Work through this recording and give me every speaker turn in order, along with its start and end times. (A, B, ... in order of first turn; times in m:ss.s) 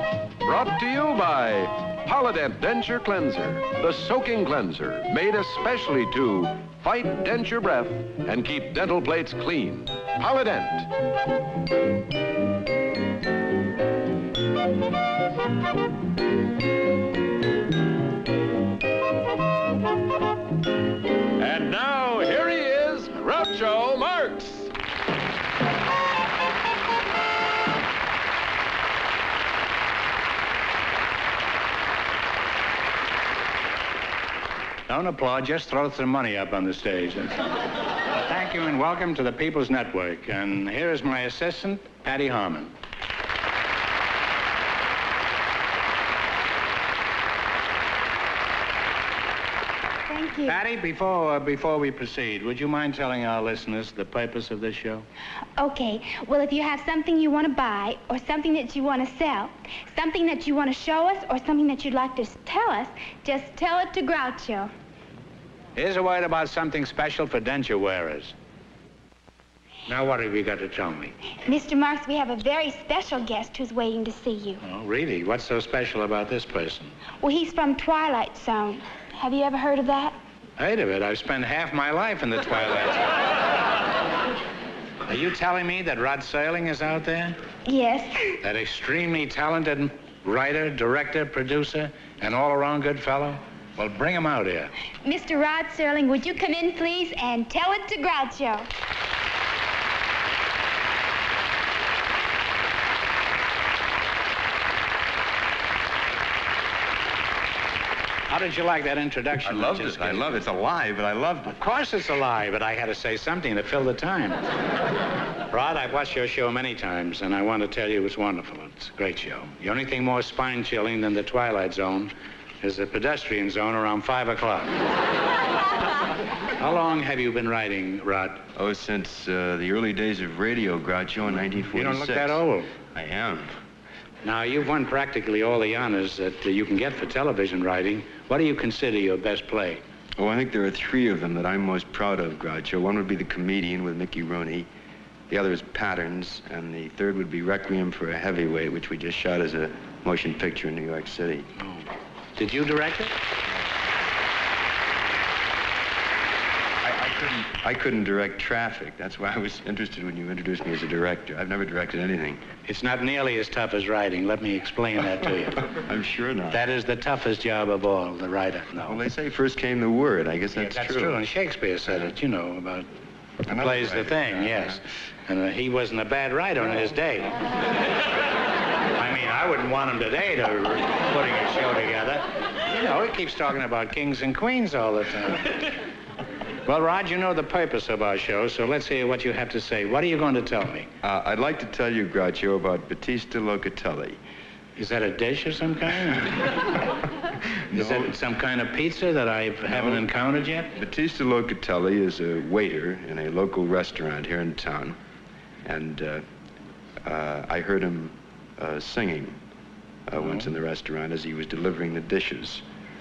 0:00.4-0:10.9 A
0:21.4-0:24.7 A
0:34.9-0:37.5 B
0:38.1-0:42.7 B
0:50.1-0:50.6 C
0:50.4-0:55.1 B
0:55.6-1:04.7 C
1:05.8-1:08.4 B
1:09.9-1:11.2 B
1:11.4-1:14.6 C
1:14.6-1:17.0 B
1:17.2-1:20.2 C
1:20.6-1:23.1 B
1:25.1-1:27.4 B
1:27.7-1:28.4 C
1:28.4-1:34.7 B
1:35.0-1:38.7 C
1:48.3-1:50.4 B
1:49.4-1:51.6 D
1:51.6-1:54.4 B
1:55.5-2:04.8 B
2:06.6-2:08.4 B
2:08.6-2:12.4 D
2:11.7-2:12.7 B
2:12.9-2:13.5 D
2:14.2-2:19.8 B
2:20.2-2:24.7 D
2:25.3-2:31.5 D
2:31.6-2:33.2 B
2:33.5-2:33.8 D
2:36.8-2:42.4 D
2:42.7-2:45.7 B
2:45.7-2:46.6 D
2:46.5-2:49.0 B
2:48.8-2:51.2 D
2:50.5-2:52.9 B
2:53.5-2:54.8 D
2:53.5-2:57.3 B
2:59.0-3:05.7 B
3:06.7-3:10.9 B
3:11.0-3:14.2 D
3:14.8-3:16.8 B
3:17.7-3:20.7 B
3:17.7-3:18.1 D
3:19.7-3:20.1 D
3:20.8-3:25.0 D
3:25.7-3:26.2 D
3:27.0-3:29.4 D
3:30.1-3:32.6 D
3:30.2-3:30.5 B